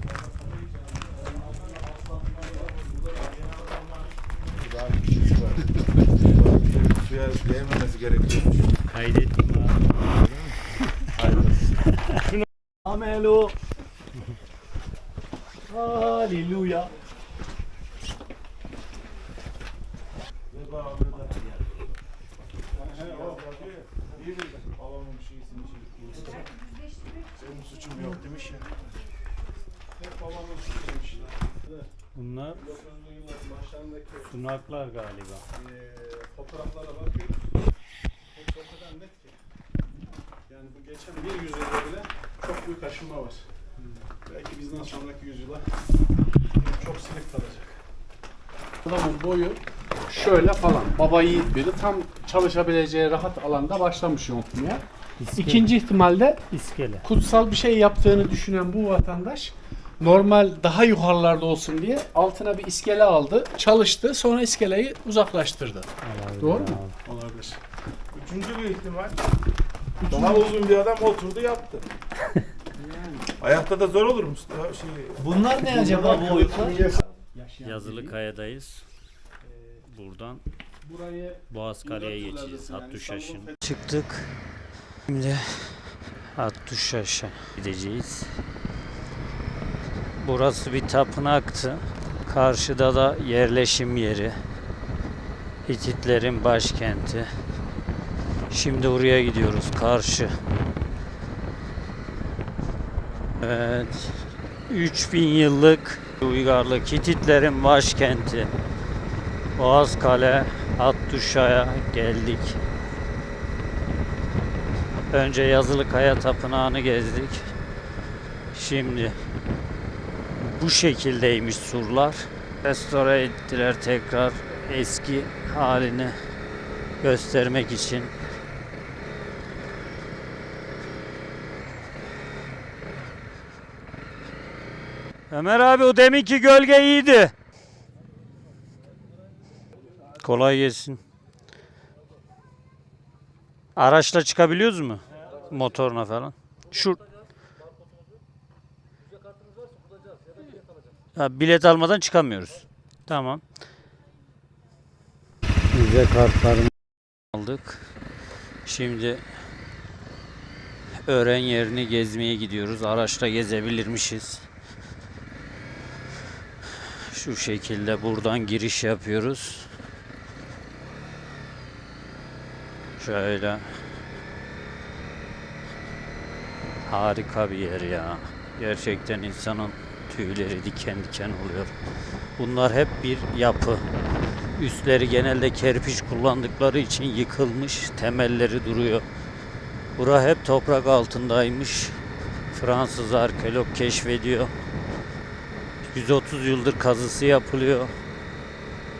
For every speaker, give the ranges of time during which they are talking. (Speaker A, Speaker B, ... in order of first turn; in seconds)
Speaker A: 0.7-8.6, 11.2-11.6, 20.5-21.9, 22.7-26.5, 27.3-28.9, 68.1-69.2, 70.0-71.8, 73.4-75.5
Speaker B: 8.9-9.8, 32.1-32.6, 34.2-35.4, 55.2-55.7, 56.5-57.1, 66.0-67.0, 77.6-78.8, 79.9-80.4, 81.5-84.3, 85.1-88.3, 90.2-94.4, 95.6-97.3, 98.5-100.3, 103.4-108.5, 109.5-112.6, 115.1-117.5, 118.5-119.2, 120.4-126.2, 127.0-128.1, 135.3-137.3, 140.2-141.0, 143.8-147.0, 151.1-153.4, 155.7-156.7, 157.3-157.9, 158.7-159.2, 161.1-164.4, 167.1-169.7, 173.0-173.7, 176.8-181.7, 182.4-183.8, 184.5-189.1, 189.9-192.0, 192.5-194.5, 195.8-197.9
Speaker C: 10.1-10.6, 12.8-13.5, 15.7-16.9, 75.2-77.0
Speaker D: 22.7-23.5, 29.9-31.9, 32.5-34.3, 35.5-37.4, 38.3-39.4, 40.5-43.5, 44.2-45.7, 46.5-47.8, 81.8-83.5
Speaker E: 48.8-54.8, 55.3-56.4, 57.0-65.9, 66.4-67.6, 70.0-70.5, 72.8-73.3, 75.7-78.1, 80.8-81.4